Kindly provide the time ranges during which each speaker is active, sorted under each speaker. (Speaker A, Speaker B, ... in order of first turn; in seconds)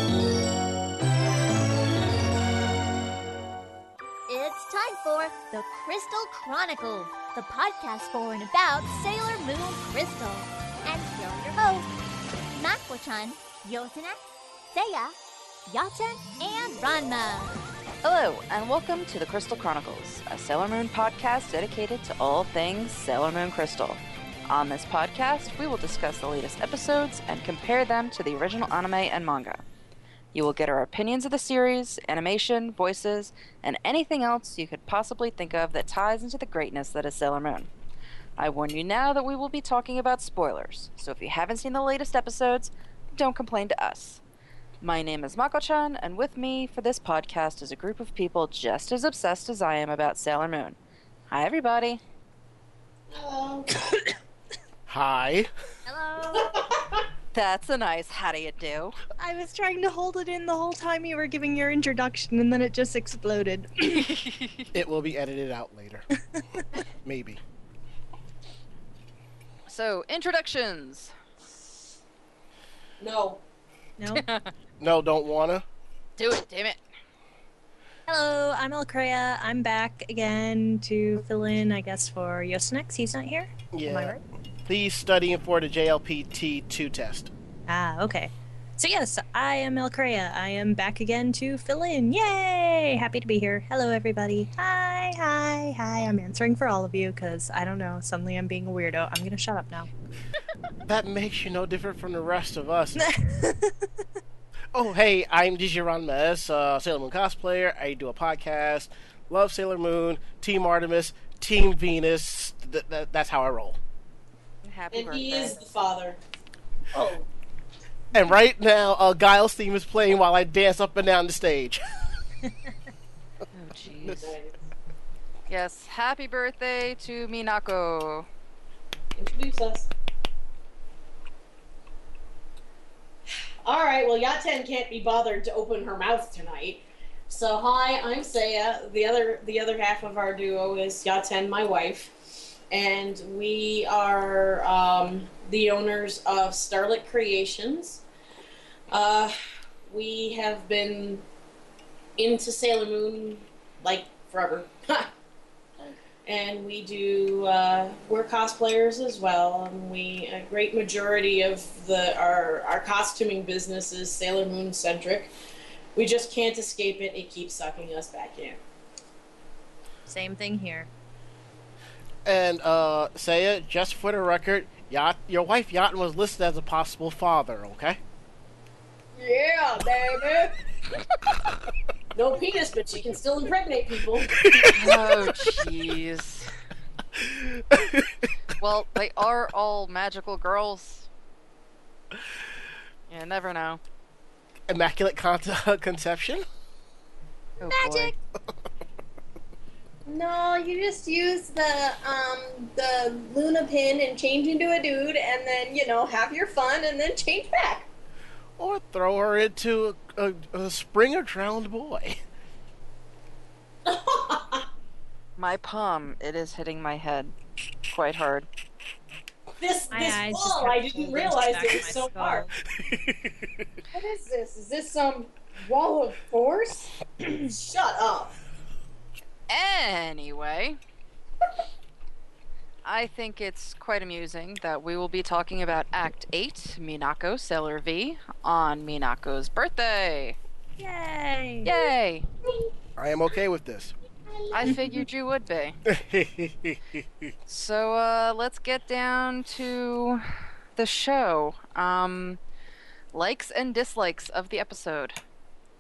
Speaker A: 4.3-11.9, 12.5-14.2, 14.7-15.2, 15.7-17.6
Speaker B: 18.0-29.6, 30.3-37.7, 38.4-44.2, 44.8-50.8, 51.3-52.0, 57.3-59.0, 64.2-64.7, 69.7-71.1, 74.2-74.5, 76.2-76.8, 114.6-115.6, 123.5-124.3, 125.5-128.3, 184.7-186.5, 188.6-191.1, 193.1-193.8, 197.6-198.1, 215.4-217.3, 217.9-218.5, 229.5-230.8, 232.8-240.4, 241.7-242.3, 244.5-245.8, 247.5-252.4, 253.1-255.2
Speaker C: 53.1-53.9, 56.3-57.1, 73.0-73.4, 114.9-116.2, 124.0-124.5, 129.2-129.9, 133.7-142.1, 142.7-148.0, 148.9-149.4, 149.9-151.2, 152.2-155.1, 156.2-165.3, 166.0-168.6, 182.2-184.4, 213.8-214.7, 219.6-222.5, 227.3-228.3, 244.3-244.7
Speaker D: 54.9-55.5, 64.7-66.0, 67.0-67.4, 74.8-75.7, 83.7-87.3, 100.8-103.1, 104.7-113.8, 118.1-121.8, 172.2-178.0, 184.4-185.6, 187.2-188.2, 194.7-196.4, 208.6-212.2, 243.0-243.9, 245.9-247.3
Speaker E: 55.9-56.6, 59.2-64.2, 74.0-74.2, 78.1-84.2, 87.7-99.9, 103.0-103.9, 170.1-170.9, 219.9-222.5, 240.8-241.8
Speaker F: 179.2-180.6, 197.7-198.1, 200.1-207.9, 223.9-226.9